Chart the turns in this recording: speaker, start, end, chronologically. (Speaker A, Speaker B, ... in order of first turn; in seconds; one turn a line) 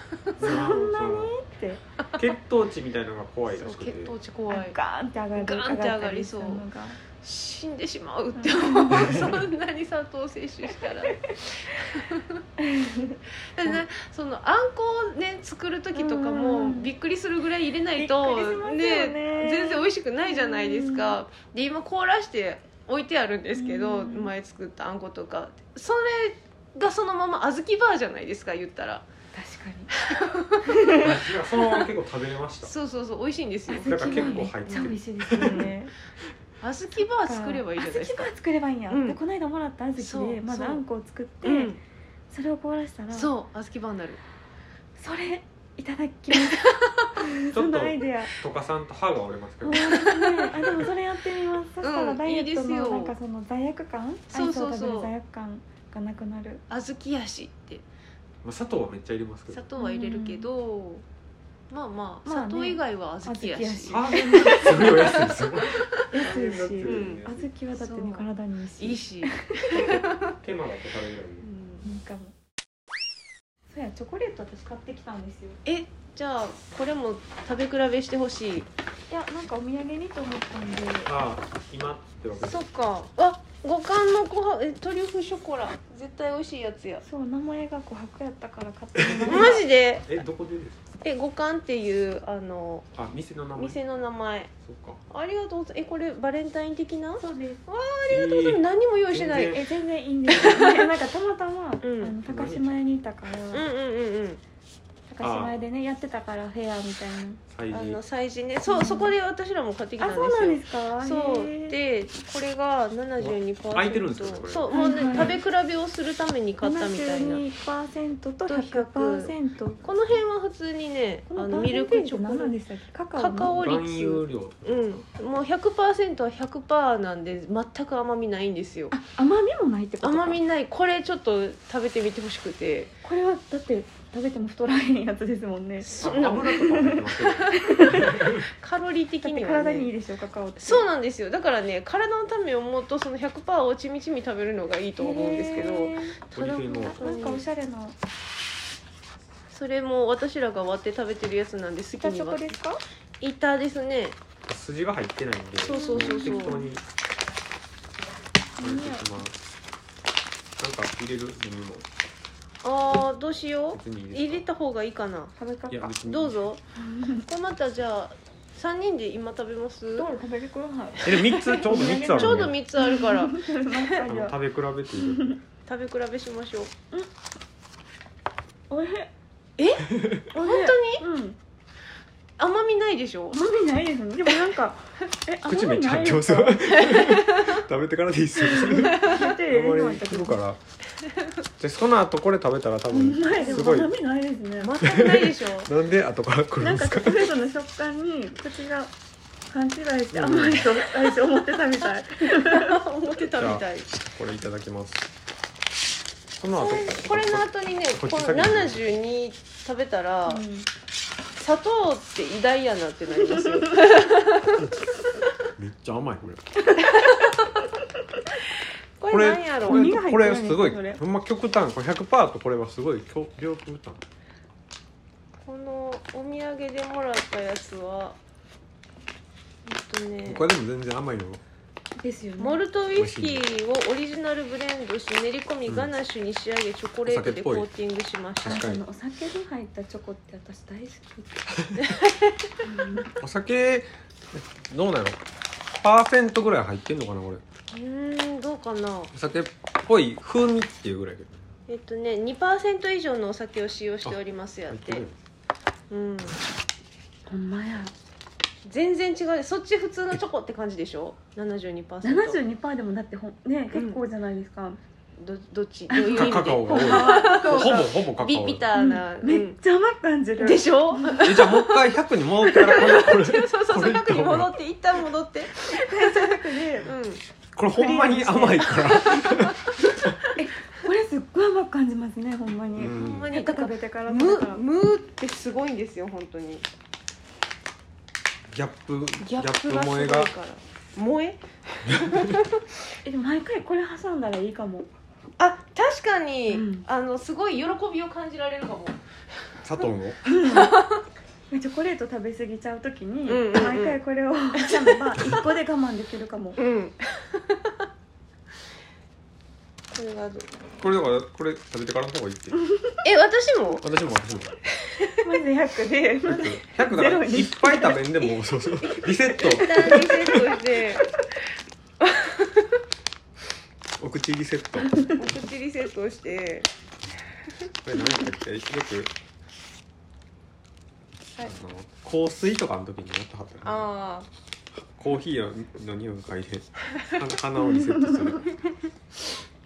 Speaker A: 0.4-1.3
Speaker B: 0.4-1.8
Speaker A: 2.2-4.1
Speaker C: 3.5-4.8
Speaker B: 4.5-7.0
Speaker C: 5.3-12.4
Speaker B: 8.3-9.3
Speaker A: 9.0-9.3
Speaker B: 12.6-13.8
Speaker C: 13.6-29.1
Speaker B: 15.9-16.9
Speaker B: 18.0-21.2
Speaker B: 23.5-24.3
Speaker B: 29.3-29.9
Speaker C: 30.1-30.9
Speaker B: 30.7-31.1
Speaker A: 31.0-32.7
Speaker C: 32.6-35.7
Speaker B: 33.7-35.9
Speaker A: 33.8-35.7
Speaker C: 36.6-38.3
Speaker B: 37.2-41.8
Speaker C: 38.9-39.2
Speaker C: 40.0-40.8
Speaker C: 41.4-41.8
Speaker B: 42.3-43.3
Speaker C: 43.1-44.2
Speaker B: 45.0-48.3
Speaker C: 46.3-47.1
Speaker A: 47.5-49.9
Speaker B: 49.6-56.6
Speaker C: 49.8-50.6
Speaker A: 50.5-50.9
Speaker C: 51.8-53.2
Speaker C: 54.3-55.1
Speaker C: 56.7-57.8
Speaker A: 58.4-59.6
Speaker C: 59.5-61.0
Speaker B: 59.8-60.5
Speaker C: 61.7-65.5
Speaker B: 62.2-65.3
Speaker A: 63.9-67.5
Speaker B: 66.1-69.9
Speaker C: 66.2-70.4
Speaker A: 70.4-71.5
Speaker C: 71.4-71.9
Speaker B: 71.8-72.3
Speaker B: 73.7-75.6
Speaker C: 75.7-78.7
Speaker B: 79.1-81.1
Speaker A: 81.1-82.6
Speaker C: 82.4-87.0
Speaker B: 87.0-89.6
Speaker A: 89.0-90.8
Speaker C: 89.3-90.1
Speaker C: 91.0-92.9
Speaker A: 92.9-93.8
Speaker C: 93.5-94.5
Speaker A: 94.6-95.0
Speaker C: 95.1-99.6
Speaker B: 97.2-97.6
Speaker A: 98.1-99.6
Speaker B: 99.4-103.7
Speaker C: 100.3-100.9
Speaker C: 101.8-102.2
Speaker A: 102.2-102.7
Speaker C: 103.5-104.4
Speaker B: 105.1-107.4
Speaker A: 105.2-105.6
Speaker A: 107.5-108.0
Speaker C: 107.7-117.4
Speaker B: 108.7-109.1
Speaker B: 110.0-111.8
Speaker A: 113.2-115.4
Speaker B: 114.7-115.4
Speaker B: 116.6-119.8
Speaker C: 118.5-122.6
Speaker B: 121.3-123.6
Speaker C: 123.1-128.9
Speaker A: 123.5-125.0
Speaker B: 128.9-130.4
Speaker C: 130.0-132.9
Speaker B: 133.0-138.3
Speaker C: 135.8-136.7
Speaker A: 136.0-138.4
Speaker C: 138.2-139.9
Speaker B: 139.2-140.9
Speaker C: 140.6-146.2
Speaker B: 145.0-148.0
Speaker A: 146.3-147.0
Speaker C: 146.8-147.4
Speaker C: 149.5-152.6
Speaker B: 152.0-152.8
Speaker C: 153.2-154.2
Speaker A: 154.5-156.8
Speaker B: 155.6-156.7
Speaker C: 155.7-156.6
Speaker B: 158.6-159.2
Speaker A: 158.6-159.3
Speaker A: 160.6-161.9
Speaker C: 162.6-165.3
Speaker A: 163.7-164.5
Speaker B: 165.4-166.0
Speaker A: 165.7-166.5
Speaker C: 166.0-166.6
Speaker B: 166.8-167.2
Speaker C: 167.1-170.1
Speaker B: 170.0-174.4
Speaker A: 171.1-172.6
Speaker C: 171.7-174.1
Speaker A: 174.1-175.3
Speaker B: 175.0-175.4
Speaker C: 175.7-176.7
Speaker B: 178.7-179.1
Speaker C: 179.6-181.0
Speaker B: 180.3-181.4
Speaker C: 182.4-183.4
Speaker B: 183.3-186.9
Speaker A: 185.5-190.6
Speaker C: 186.9-187.5
Speaker B: 188.4-190.4
Speaker C: 188.8-189.3
Speaker A: 191.6-193.9
Speaker B: 192.9-194.8
Speaker C: 193.3-193.7
Speaker C: 194.6-195.7
Speaker A: 194.8-197.4
Speaker B: 196.6-198.9
Speaker B: 199.5-202.8
Speaker A: 200.1-200.7
Speaker C: 202.3-203.9
Speaker A: 203.4-205.1
Speaker A: 206.4-208.8
Speaker C: 206.5-210.4
Speaker B: 210.3-210.7
Speaker C: 211.4-214.6
Speaker B: 213.2-213.6
Speaker A: 215.6-216.4
Speaker C: 219.0-219.9
Speaker A: 219.1-224.0
Speaker B: 219.7-221.0
Speaker C: 225.4-228.2
Speaker C: 229.7-230.5
Speaker A: 230.2-231.4
Speaker B: 232.0-232.6
Speaker C: 232.4-238.7
Speaker A: 233.0-233.4
Speaker A: 237.1-237.7
Speaker A: 238.4-238.8
Speaker B: 238.4-241.5
Speaker A: 241.6-242.0
Speaker B: 242.6-243.1
Speaker A: 243.2-245.2
Speaker A: 245.8-247.4
Speaker C: 247.7-249.1
Speaker A: 249.1-251.4
Speaker C: 251.7-255.1
Speaker A: 254.7-255.2
Speaker C: 255.9-256.4
Speaker B: 257.3-257.9
Speaker C: 258.6-262.4
Speaker B: 262.0-264.8
Speaker C: 263.7-264.0
Speaker C: 265.2-269.6
Speaker B: 265.9-267.8
Speaker A: 266.1-268.7
Speaker B: 268.8-271.2
Speaker C: 270.4-275.5
Speaker A: 271.2-274.5
Speaker B: 275.6-276.9
Speaker C: 276.8-277.2
Speaker A: 277.5-279.6
Speaker B: 277.7-278.7
Speaker C: 278.6-279.5
Speaker B: 280.4-284.6
Speaker A: 282.8-283.3
Speaker C: 282.8-286.6
Speaker A: 288.5-290.3
Speaker C: 289.2-292.4
Speaker B: 293.0-294.9
Speaker C: 295.4-299.0
Speaker B: 296.5-296.8
Speaker A: 299.6-300.3
Speaker B: 300.3-300.7
Speaker C: 300.3-301.0
Speaker B: 301.5-306.6
Speaker C: 303.3-304.0
Speaker C: 304.6-305.1
Speaker C: 306.6-307.6
Speaker C: 309.9-310.5
Speaker A: 310.8-312.6
Speaker C: 313.0-313.8
Speaker A: 313.8-314.6
Speaker B: 315.2-318.0
Speaker A: 316.2-320.5
Speaker C: 318.9-321.1
Speaker B: 319.6-320.4
Speaker C: 322.1-322.5
Speaker A: 324.0-325.1
Speaker C: 325.2-326.7
Speaker A: 327.8-329.1
Speaker A: 331.4-333.9
Speaker C: 333.6-334.3
Speaker A: 335.0-338.6
Speaker B: 337.8-338.1